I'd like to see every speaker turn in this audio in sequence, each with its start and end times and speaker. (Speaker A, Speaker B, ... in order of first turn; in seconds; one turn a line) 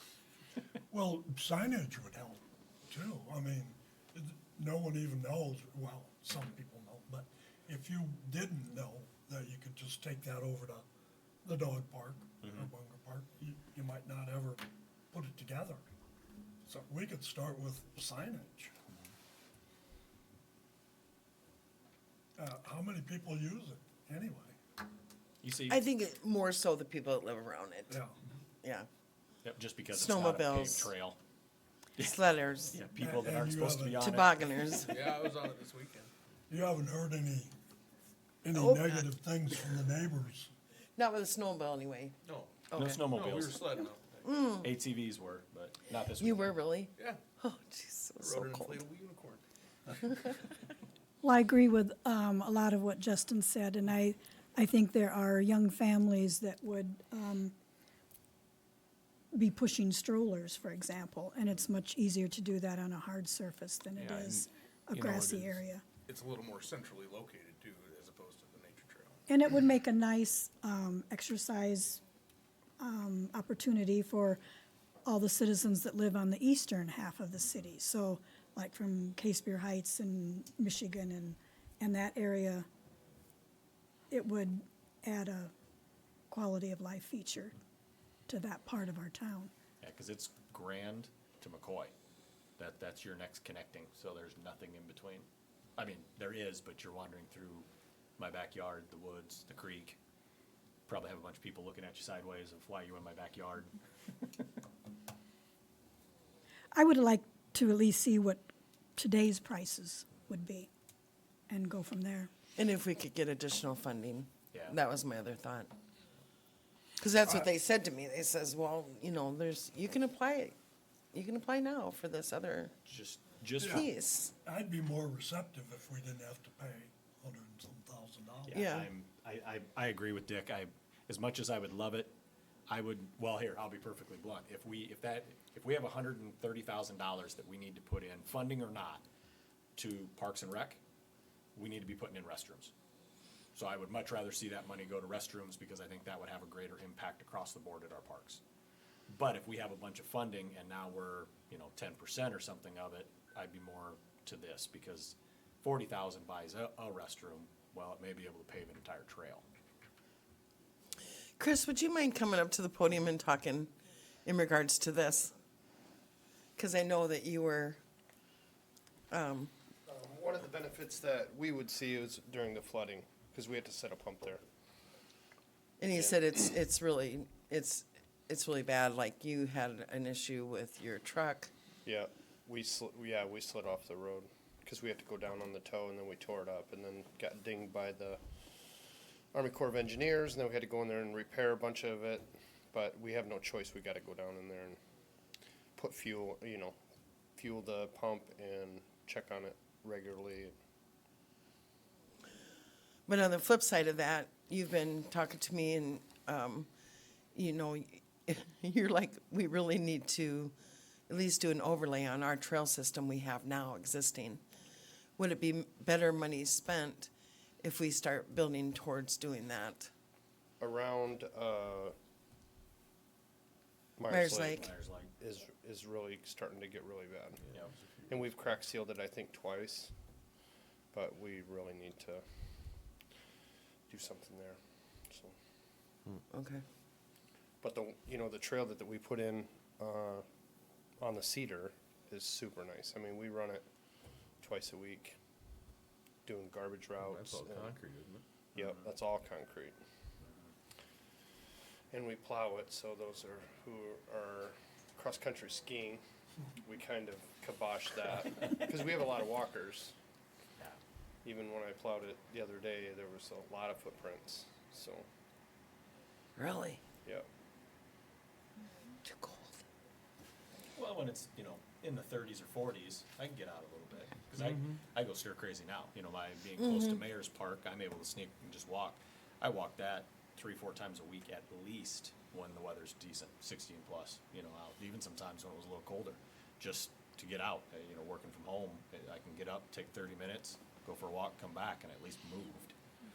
Speaker A: 0.9-10.8
Speaker A: 11.4-15.9
Speaker A: 16.6-18.7
Speaker A: 22.4-24.6
Speaker B: 25.4-25.8
Speaker C: 25.7-28.0
Speaker A: 27.9-28.2
Speaker C: 28.6-28.9
Speaker B: 29.4-31.2
Speaker C: 29.9-30.9
Speaker C: 32.0-32.8
Speaker B: 32.7-34.3
Speaker A: 33.0-34.1
Speaker C: 34.0-35.2
Speaker D: 34.9-36.1
Speaker A: 36.5-37.5
Speaker A: 38.4-40.5
Speaker C: 38.5-39.0
Speaker C: 41.0-42.1
Speaker D: 42.2-44.3
Speaker C: 42.7-43.5
Speaker B: 42.8-43.6
Speaker C: 44.2-44.7
Speaker B: 44.6-46.6
Speaker C: 46.2-48.8
Speaker D: 47.0-47.2
Speaker D: 48.2-49.4
Speaker E: 51.2-57.5
Speaker E: 59.3-65.8
Speaker D: 63.9-69.3
Speaker E: 69.3-72.0
Speaker E: 72.8-74.4
Speaker E: 75.1-82.7
Speaker E: 84.1-85.5
Speaker E: 86.3-87.6
Speaker E: 88.3-89.5
Speaker B: 89.8-91.9
Speaker B: 92.6-97.7
Speaker B: 98.2-100.0
Speaker B: 100.9-103.7
Speaker E: 106.7-110.7
Speaker E: 111.5-112.3
Speaker C: 112.6-115.7
Speaker B: 114.5-114.8
Speaker C: 117.0-120.6
Speaker C: 121.1-122.8
Speaker B: 122.8-123.8
Speaker A: 123.6-123.9
Speaker C: 123.6-124.3
Speaker A: 124.4-128.6
Speaker B: 128.5-132.2
Speaker C: 128.5-128.9
Speaker B: 132.7-139.0
Speaker B: 139.8-140.8
Speaker B: 141.5-142.7
Speaker B: 143.5-148.4
Speaker B: 149.1-159.5
Speaker C: 161.4-163.7
Speaker C: 164.2-165.3
Speaker C: 166.6-167.8
Speaker C: 169.1-169.5
Speaker F: 169.9-174.4
Speaker C: 175.8-181.5
Speaker F: 175.9-176.2
Speaker F: 181.8-188.2
Speaker F: 189.3-194.8
Speaker F: 195.8-196.8
Speaker F: 197.3-200.5
Speaker C: 203.1-206.7
Speaker C: 207.3-210.5
Speaker C: 211.1-214.4
Speaker C: 215.2-217.1
Speaker C: 217.6-219.9
Speaker F: 220.6-221.9
Speaker F: 224.0-227.4
Speaker C: 224.1-224.7
Speaker B: 224.3-225.1
Speaker D: 227.4-228.4
Speaker F: 228.0-229.9
Speaker F: 230.9-232.2
Speaker F: 233.9-235.3
Speaker C: 236.3-236.6
Speaker F: 237.6-240.2
Speaker F: 241.0-243.7
Speaker F: 244.4-245.2
Speaker F: 246.2-247.8
Speaker D: 247.0-248.2
Speaker F: 248.5-249.8
Speaker B: 248.6-248.8
Speaker F: 251.9-256.0
Speaker F: 256.6-259.9
Speaker F: 261.2-265.1
Speaker C: 266.4-266.8
Speaker C: 269.1-269.6
Speaker B: 270.8-292.8
Speaker D: 274.4-274.8
Speaker C: 276.6-277.0